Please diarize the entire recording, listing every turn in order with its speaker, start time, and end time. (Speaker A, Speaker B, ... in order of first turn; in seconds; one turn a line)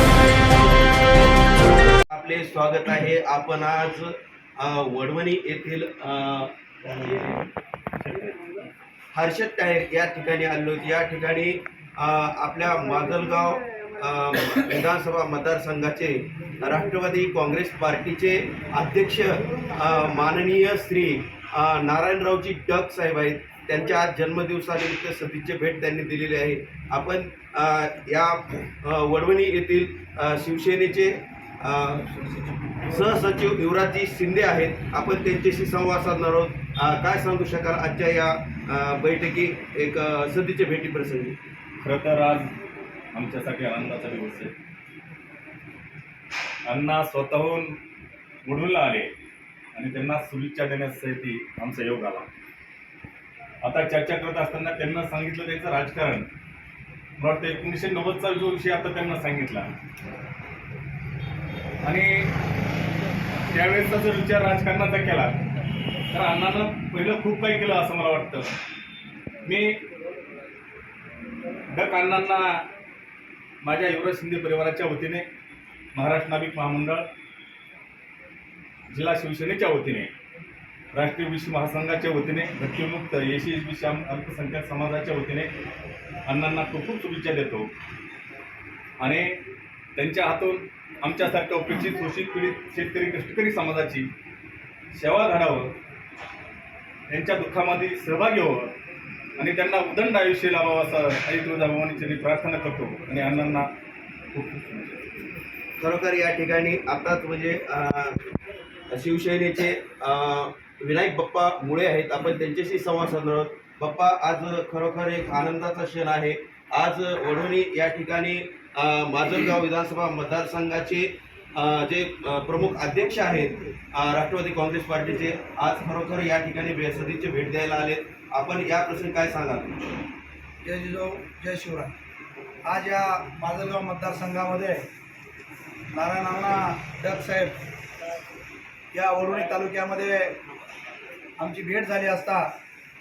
Speaker A: 0.5-0.9
Speaker A: 1.6-7.2
Speaker B: 6.9-7.3
Speaker B: 8.0-8.7
Speaker A: 9.1-41.4
Speaker B: 41.8-42.5
Speaker B: 43.1-44.5
Speaker B: 46.7-47.8
Speaker B: 48.5-49.1
Speaker B: 49.8-52.3
Speaker B: 53.6-56.3
Speaker B: 57.2-59.7
Speaker B: 61.8-62.3
Speaker B: 63.5-65.4
Speaker B: 66.1-68.5
Speaker B: 69.5-69.8
Speaker B: 71.7-72.7
Speaker B: 73.6-75.3
Speaker B: 76.0-77.0
Speaker B: 78.9-80.1
Speaker B: 80.9-85.5
Speaker B: 86.3-87.7
Speaker B: 89.0-89.4
Speaker B: 90.0-94.1
Speaker B: 94.9-95.8
Speaker B: 97.1-98.7
Speaker B: 99.4-103.7
Speaker B: 104.3-105.1
Speaker A: 105.8-108.3
Speaker A: 108.9-129.9
Speaker C: 130.6-131.9
Speaker C: 132.7-134.8
Speaker C: 135.9-137.6
Speaker C: 138.9-140.4
Speaker C: 141.4-142.5